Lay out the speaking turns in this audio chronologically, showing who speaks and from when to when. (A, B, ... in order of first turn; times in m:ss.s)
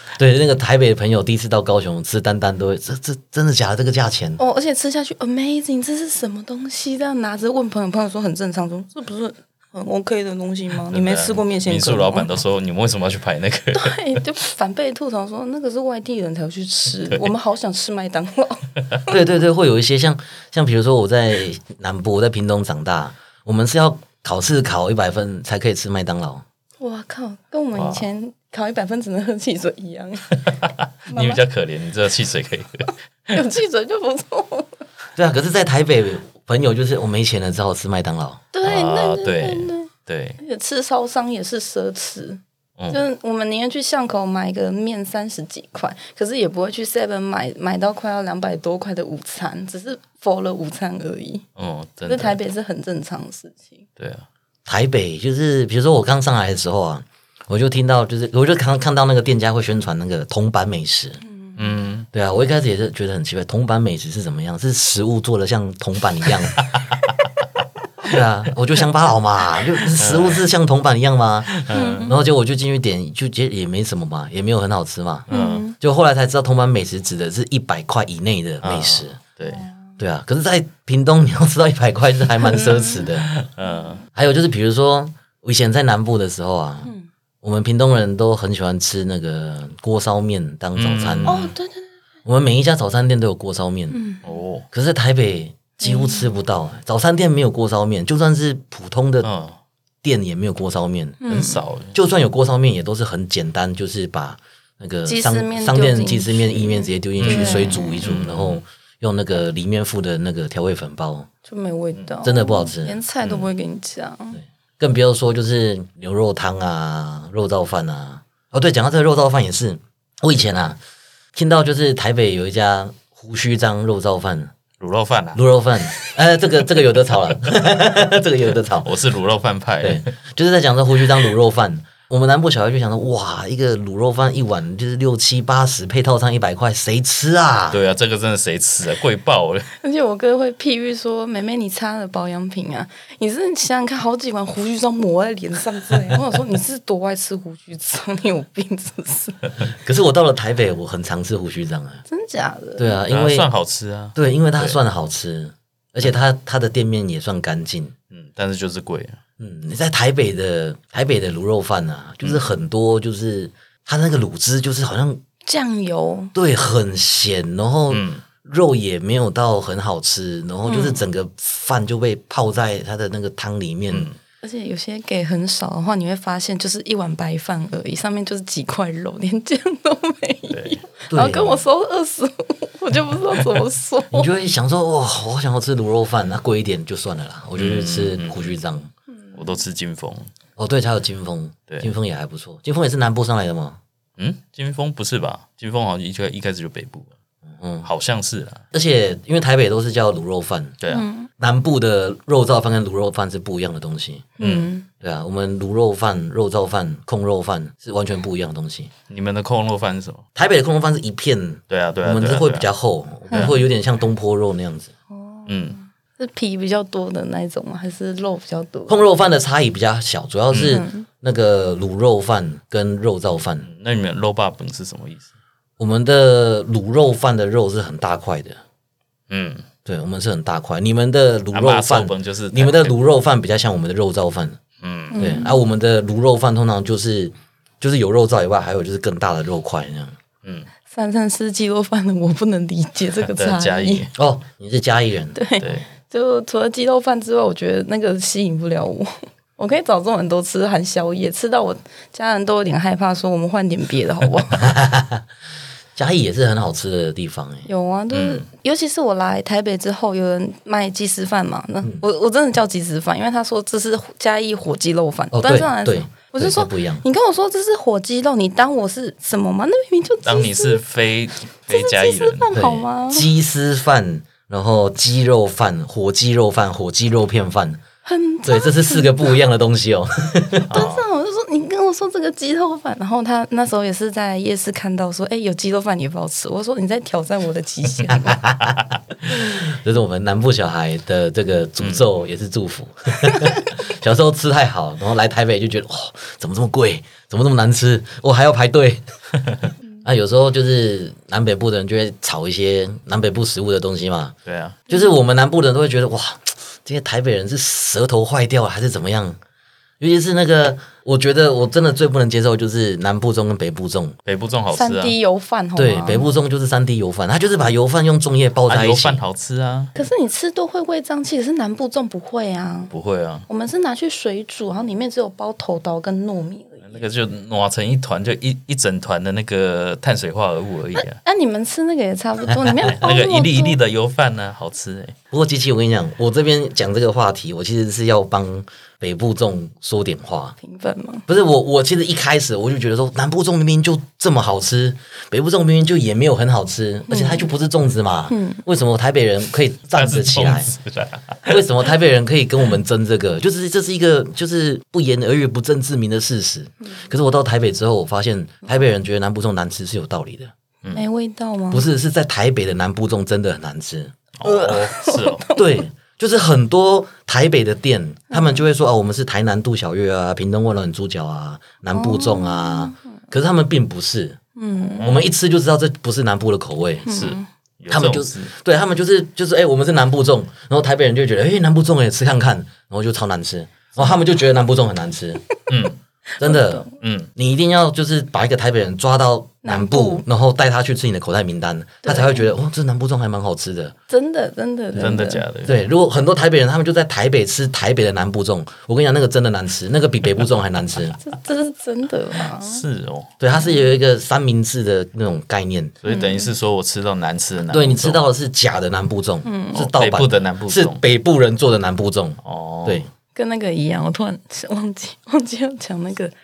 0:00.2-0:04.4 A
0:04.4-0:12.4 B
0:10.9-0:14.2 C
0:13.7-0:19.2 B
0:19.1-0:26.4 A
0:26.8-0:30.4 B
0:27.7-0:28.0 C
0:30.6-0:33.4 C
0:31.1-0:31.4 B
0:33.3-0:34.8 B
0:35.2-0:38.4 A
0:38.5-0:39.9 B
0:38.6-0:40.4 C
0:40.4-0:51.4 B
0:51.6-0:52.4 C
0:52.1-0:53.8 B
0:54.0-0:54.2 C
0:54.6-1:01.2 A
1:01.2-1:01.6 B
1:01.6-1:02.1 C
1:02.1-1:06.6 A
1:08.0-1:15.3 A
1:10.0-1:10.4 C
1:11.5-1:12.1 C
1:11.7-1:12.2 B
1:15.3-1:15.6 C
1:15.3-1:15.7 B
1:15.8-1:19.2 A
1:18.6-1:19.6 C
1:19.4-1:19.9 B
1:20.0-1:23.3 A
1:22.5-1:23.0 B
1:23.3-1:24.0 C
1:23.6-1:24.0 B
1:24.1-1:26.9 A
1:27.4-1:31.4 A
1:30.8-1:31.5 C
1:31.2-1:31.9 B
1:32.2-1:34.0 A
1:33.9-1:34.2 B
1:34.2-1:34.6 C
1:34.7-1:39.3 A
1:35.8-1:36.3 B
1:39.2-1:39.6 C
1:40.0-1:41.3 A
1:41.2-1:41.7 B
1:41.3-1:41.9 C
1:41.9-1:51.3 A
1:45.0-1:48.0 B
1:47.2-1:48.6 C
1:51.5-1:54.4 B
1:52.2-1:53.0 A
1:53.2-1:53.5 C
1:54.8-2:00.8 A
2:01.3-2:04.5 A
2:04.8-2:06.1 C
2:05.3-2:08.9 A
2:08.8-2:10.1 C
2:09.8-2:17.8 A
2:17.7-2:19.7 C
2:19.8-2:29.5 B
2:29.6-2:32.0 A
2:32.1-2:33.0 B
2:32.8-2:33.5 A
2:33.1-2:34.8 C
2:34.1-2:37.9 A
2:38.1-2:39.2 C
2:39.4-2:45.2 A
2:42.2-2:42.5 C
2:45.4-2:46.3 B
2:46.3-2:54.1 A
2:47.9-2:48.2 C
2:50.7-2:51.0 B
2:53.9-2:54.2 C
2:54.4-3:04.3 B
3:00.5-3:00.8 C
3:01.1-3:01.6 A
3:04.1-3:08.9 A
3:07.6-3:08.5 C
3:09.2-3:09.5 B
3:09.4-3:10.3 C
3:10.6-3:13.8 A
3:14.2-3:17.1 C
3:17.6-3:17.9 A
3:17.8-3:18.6 C
3:18.7-3:20.8 A
3:20.8-3:21.0 C
3:20.9-3:21.3 B
3:21.4-3:24.3 A
3:24.4-3:24.9 B
3:24.4-3:24.7 C
3:25.0-3:28.9 A
3:29.1-3:30.2 C
3:30.4-3:34.9 A
3:31.7-3:32.7 C
3:33.3-3:33.6 C
3:35.1-3:39.0 B
3:35.5-3:35.8 C
3:38.9-3:43.7 A
3:40.5-3:40.8 C
3:40.6-3:41.0 B
3:43.6-3:45.3 C
3:45.8-3:48.6 A
3:49.3-3:49.6 C
3:49.8-3:54.6 A
3:51.5-3:52.9 C
3:54.8-3:55.3 C
3:55.1-3:55.6 B
3:55.2-4:00.2 A
4:00.4-4:00.7 C
4:00.9-4:04.0 B
4:03.2-4:04.1 C
4:04.2-4:05.4 A
4:05.3-4:14.7 B
4:05.6-4:05.9 C
4:14.6-4:15.2 A
4:15.9-4:17.7 A
4:17.6-4:30.8 B
4:18.1-4:18.4 C
4:25.3-4:27.0 A
4:30.2-4:32.6 C
4:31.7-4:33.3 B
4:32.5-4:37.8 A
4:38.0-4:39.3 B
4:38.4-4:40.7 A
4:40.7-4:41.0 C
4:40.7-4:48.4 B
4:48.1-4:59.0 A
4:51.8-4:52.0 C
4:59.4-4:59.6 C
5:00.0-5:04.3 A
5:04.4-5:04.8 C
5:04.9-5:09.4 A
5:10.0-5:14.2 A
5:14.2-5:15.2 C
5:14.7-5:16.3 B
5:15.8-5:19.2 A
5:18.7-5:20.0 C
5:20.0-5:22.9 B
5:22.9-5:23.5 C
5:23.5-5:27.0 B
5:26.8-5:31.2 C
5:30.9-5:33.8 B
5:32.8-5:35.1 C
5:35.3-5:40.6 A
5:40.6-5:41.2 B
5:41.3-5:50.7 A
5:47.1-5:47.4 B
5:48.3-5:48.6 B
5:49.9-5:51.6 C
5:51.5-6:00.5 A
6:00.9-6:01.8 B
6:01.7-6:04.2 A
6:04.4-6:05.4 C
6:04.4-6:05.8 B
6:05.6-6:14.4 A
6:08.3-6:08.6 B
6:11.9-6:13.0 B
6:14.6-6:15.0 B
6:15.0-6:15.3 C
6:15.0-6:17.2 A
6:17.0-6:17.5 B
6:17.1-6:18.5 C
6:17.9-6:25.4 A
6:25.7-6:26.0 C
6:26.4-6:26.9 B
6:26.4-6:33.9 A
6:27.0-6:27.3 C
6:29.6-6:30.2 B
6:32.0-6:32.5 B
6:34.1-6:35.4 B
6:35.0-6:35.8 C
6:35.6-6:41.2 A
6:41.2-6:42.8 B
6:42.6-6:43.3 C
6:43.4-6:46.0 A
6:46.0-6:48.2 C
6:46.0-6:46.5 B
6:47.7-6:53.1 A
6:49.4-6:49.9 B
6:49.8-6:51.0 C
6:52.4-6:53.0 C
6:53.3-6:56.3 B